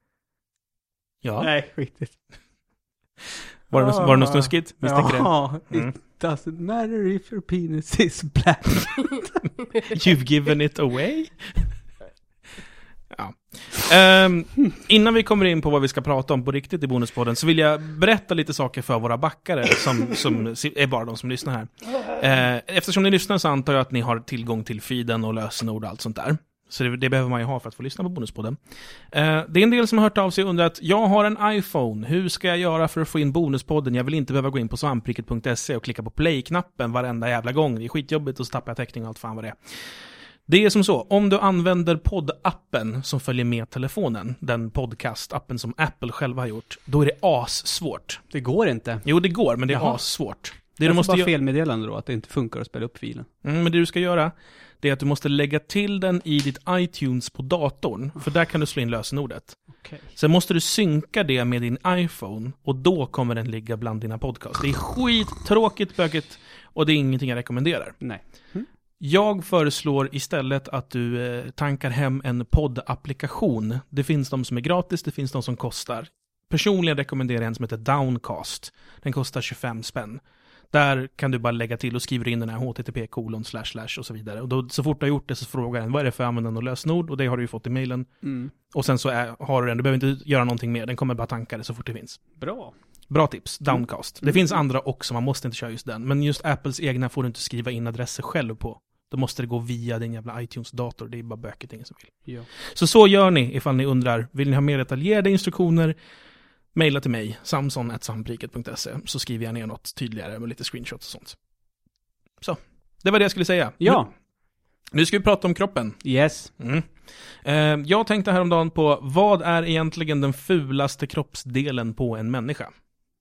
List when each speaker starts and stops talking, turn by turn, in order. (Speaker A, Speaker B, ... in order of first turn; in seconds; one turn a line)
Speaker A: 1.2-1.5
Speaker B: 1.4-2.2
Speaker A: 3.7-5.9
Speaker B: 3.7-9.4
Speaker A: 9.8-11.7
Speaker A: 13.1-28.6
Speaker A: 29.1-39.6
Speaker A: 40.5-48.2
Speaker B: 48.3-49.1
Speaker A: 49.0-51.3
Speaker B: 49.7-50.0
Speaker B: 50.6-53.3
Speaker A: 53.4-68.1
Speaker B: 59.8-60.1
Speaker B: 68.0-68.7
Speaker A: 69.0-80.2
Speaker A: 80.7-92.4
Speaker B: 88.2-88.5
Speaker B: 92.4-92.7
Speaker A: 93.1-106.0
Speaker B: 93.7-94.4
Speaker A: 106.7-111.4
Speaker A: 112.4-114.0
Speaker B: 113.8-114.1
Speaker A: 114.9-116.1
Speaker B: 116.0-116.5
Speaker A: 116.6-116.9
Speaker A: 117.4-122.7